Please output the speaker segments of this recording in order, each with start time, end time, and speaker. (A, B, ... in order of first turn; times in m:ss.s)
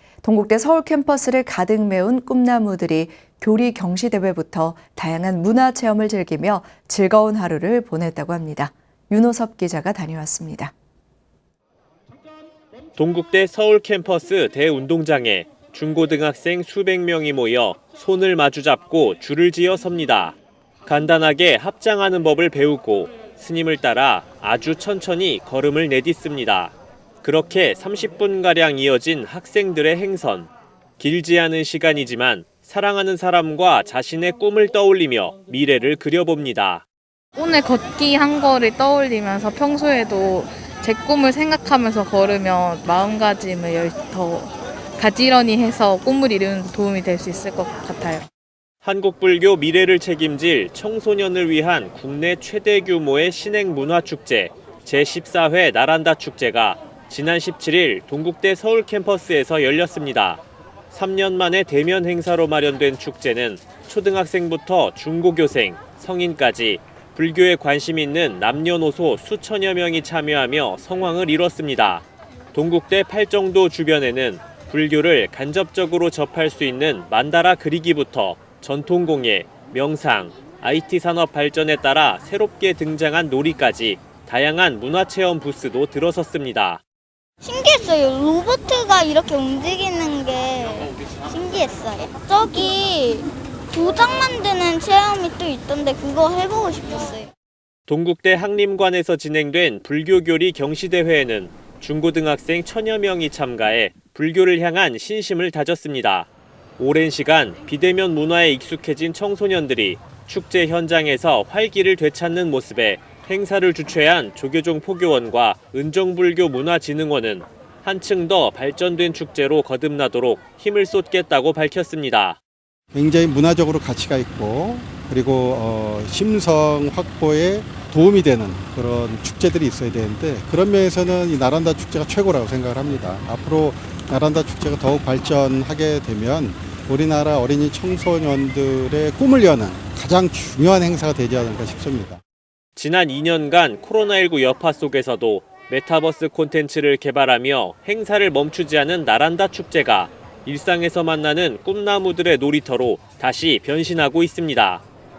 0:00.2-0:10.7 A
0:13.0-0:36.8 B
0:37.4-0:48.2 C
0:48.8-1:00.4 B
1:00.9-1:26.8 B
1:27.4-1:37.3 D
1:37.9-2:02.4 B
2:02.9-2:22.2 E
2:22.8-2:34.8 B